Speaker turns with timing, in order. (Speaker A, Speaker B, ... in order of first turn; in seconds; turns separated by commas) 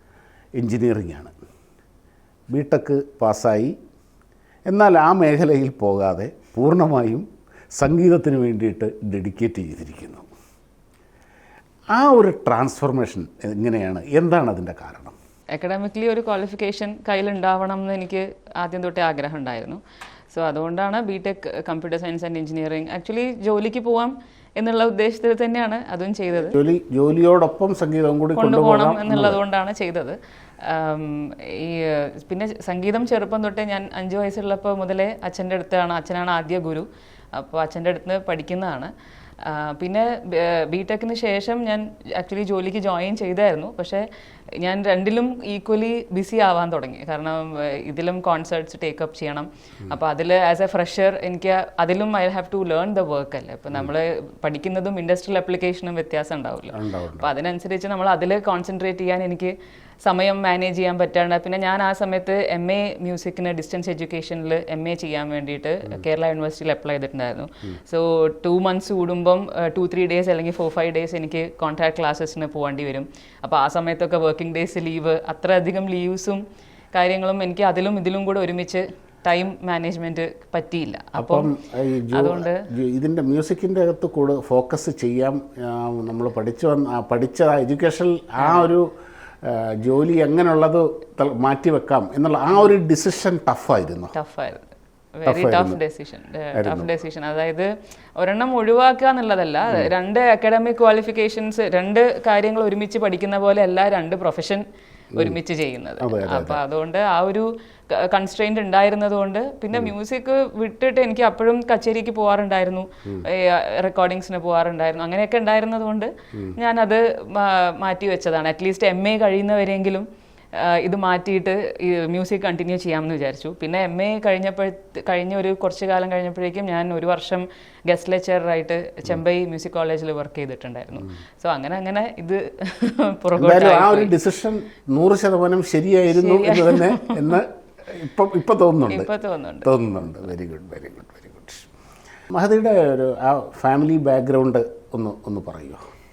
Speaker A: 0.6-1.3, Speaker A: 2.5-3.8, Speaker A: 4.7-7.2, Speaker A: 7.8-10.3, Speaker A: 11.9-15.2, Speaker B: 15.5-26.6, Speaker A: 26.4-29.4, Speaker B: 28.4-44.1, Speaker B: 44.6-81.5, Speaker A: 56.7-57.3, Speaker A: 81.2-88.9, Speaker B: 82.1-82.7, Speaker B: 88.4-88.7, Speaker A: 89.4-94.1, Speaker B: 94.1-104.6, Speaker A: 95.3-95.8, Speaker A: 96.5-96.9, Speaker B: 105.2-134.1, Speaker A: 106.0-106.6, Speaker A: 133.4-139.1, Speaker B: 136.1-137.4, Speaker B: 138.9-139.7, Speaker A: 139.6-141.7, Speaker A: 142.3-145.8